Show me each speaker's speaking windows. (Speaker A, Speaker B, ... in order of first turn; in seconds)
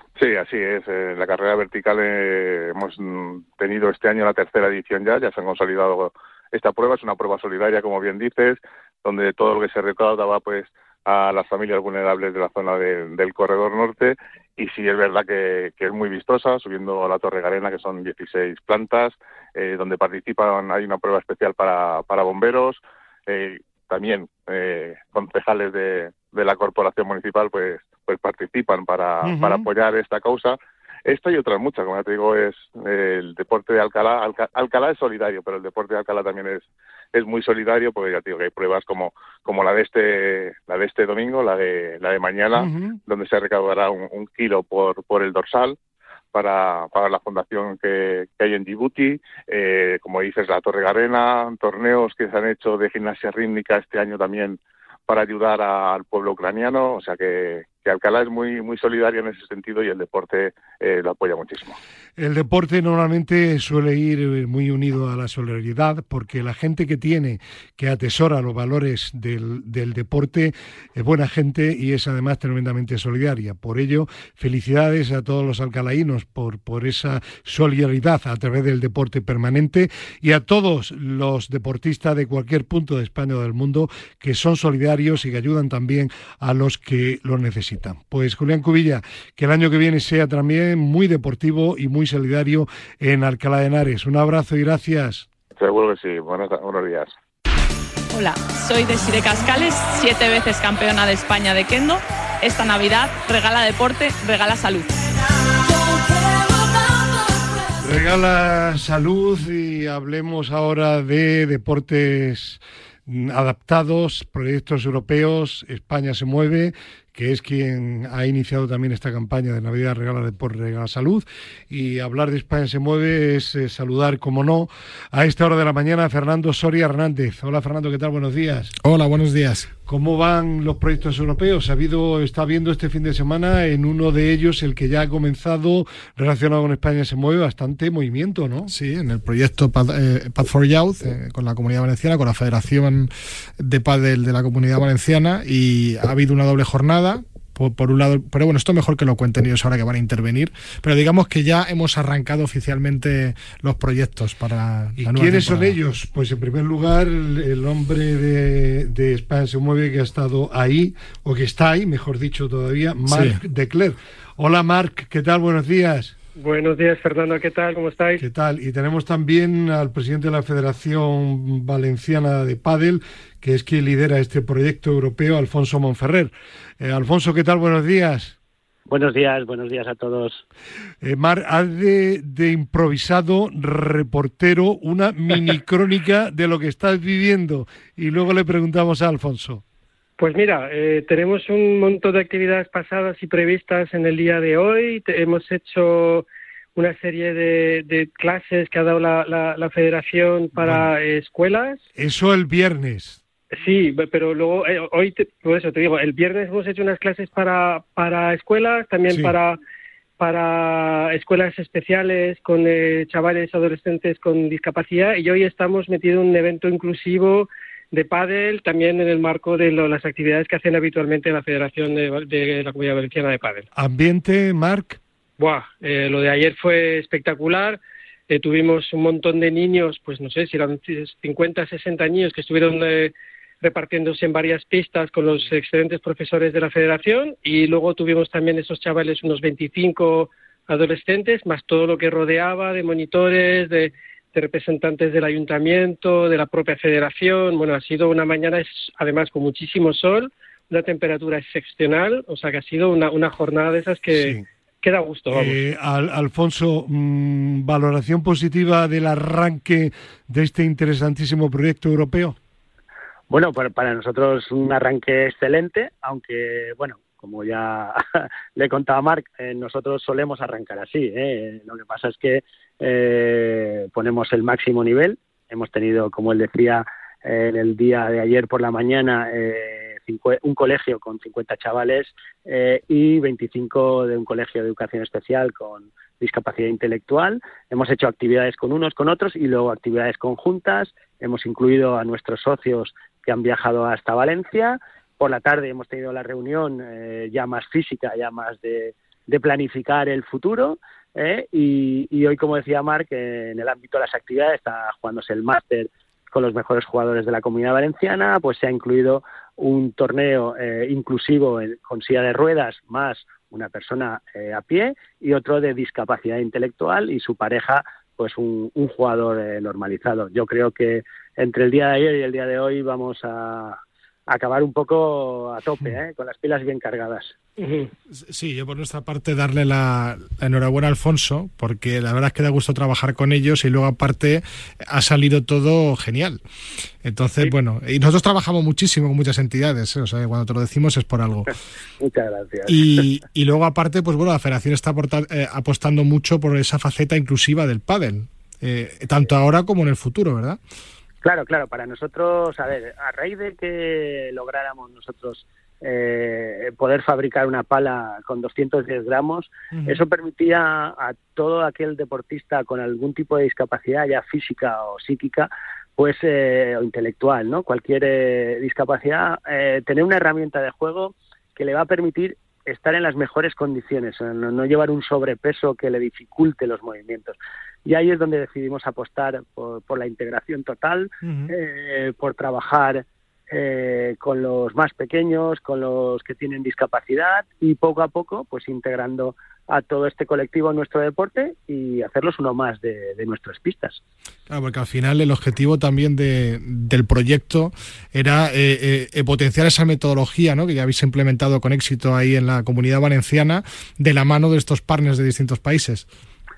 Speaker A: 0.2-45.8, 46.3-61.8, 95.6-97.1
Speaker B: 29.2-29.6, 42.5-43.0, 62.2-95.3, 107.8-128.7, 129.9-138.7, 155.0-166.2, 168.2-178.3, 181.0-189.6, 200.6-200.9, 201.9-203.2, 223.7-225.0, 254.1-254.4, 255.3-262.4
Speaker C: 98.1-105.0
Speaker D: 128.8-129.7, 138.7-155.8, 163.1-163.4, 328.1-336.4, 337.0-341.5, 342.7-350.6, 359.7-360.0, 394.5-406.1
Speaker E: 166.3-168.2, 190.2-201.8, 203.5-209.6, 210.2-223.7, 225.4-255.6, 327.6-327.9
Speaker F: 178.9-180.4, 263.3-327.4, 342.0-342.7, 351.2-394.0